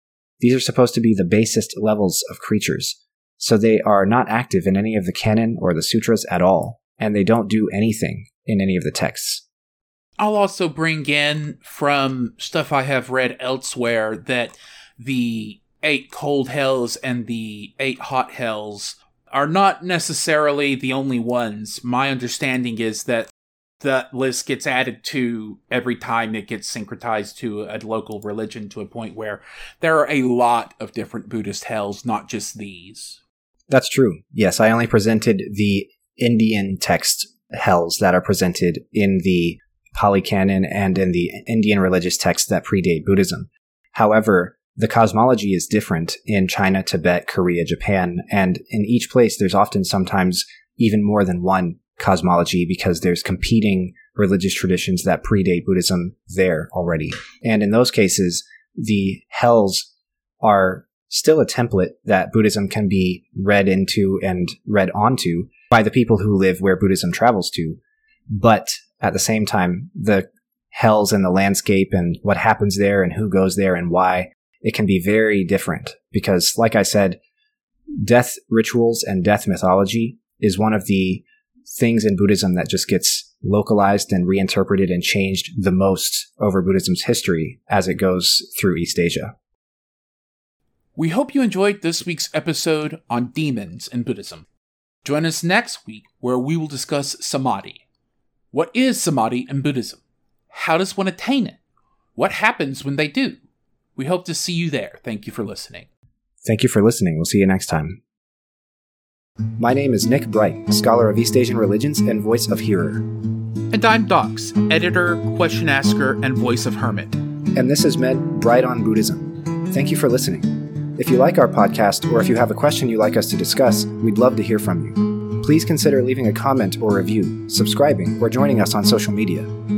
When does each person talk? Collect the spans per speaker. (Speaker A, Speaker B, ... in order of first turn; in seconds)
Speaker A: 0.4-9.4, 33.7-59.9, 60.4-77.2, 78.0-89.3, 106.4-108.0, 109.6-113.1, 117.5-129.5
Speaker B: 10.2-33.2, 91.0-94.5, 95.0-97.8, 98.5-101.6, 102.2-103.4, 104.0-105.9, 113.7-117.2